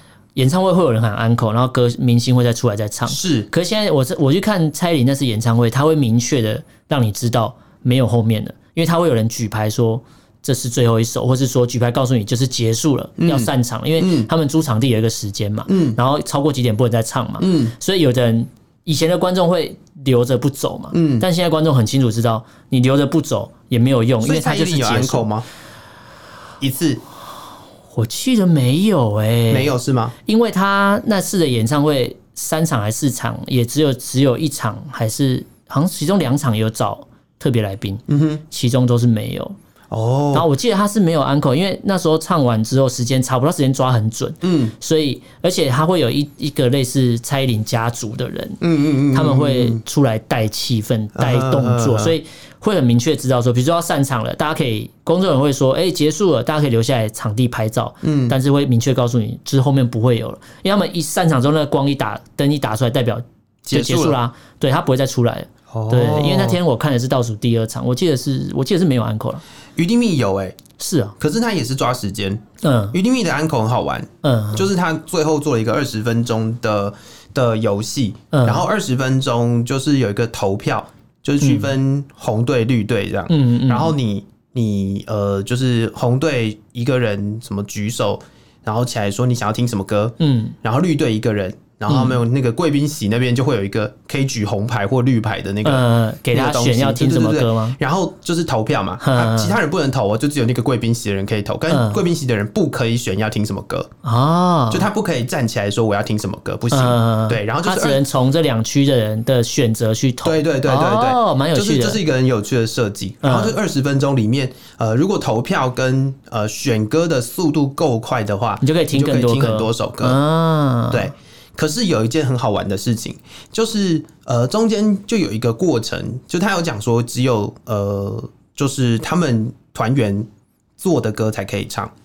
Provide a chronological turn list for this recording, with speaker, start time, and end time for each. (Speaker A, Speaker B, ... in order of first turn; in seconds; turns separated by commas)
Speaker A: 0.4-25.3, Speaker B: 3.1-3.5, Speaker B: 13.2-14.3, Speaker B: 15.7-16.0, Speaker B: 17.4-17.7, Speaker B: 20.9-21.3, Speaker B: 24.2-25.5, Speaker B: 26.6-27.0, Speaker A: 27.9-29.7, Speaker B: 29.5-30.1, Speaker A: 30.3-39.6, Speaker B: 38.1-38.4, Speaker B: 39.9-40.5, Speaker A: 40.3-69.4, Speaker B: 44.4-44.8, Speaker B: 48.6-49.8, Speaker B: 51.1-52.1, Speaker B: 58.0-58.4, Speaker B: 63.7-64.2, Speaker B: 65.7-66.6, Speaker B: 69.8-70.6, Speaker A: 70.8-71.2, Speaker B: 71.2-103.9, Speaker A: 72.6-73.0, Speaker A: 74.2-74.7, Speaker A: 78.3-78.7, Speaker A: 81.4-81.7, Speaker A: 83.3-84.0, Speaker A: 90.2-90.6, Speaker A: 91.9-92.2, Speaker A: 95.6-97.8, Speaker A: 99.0-99.6, Speaker A: 101.7-102.0, Speaker A: 104.0-104.9, Speaker B: 104.7-108.0, Speaker A: 106.7-112.0, Speaker B: 110.2-120.2, Speaker A: 113.2-113.6, Speaker A: 118.6-121.1, Speaker B: 120.9-130.3, Speaker B: 130.8-131.9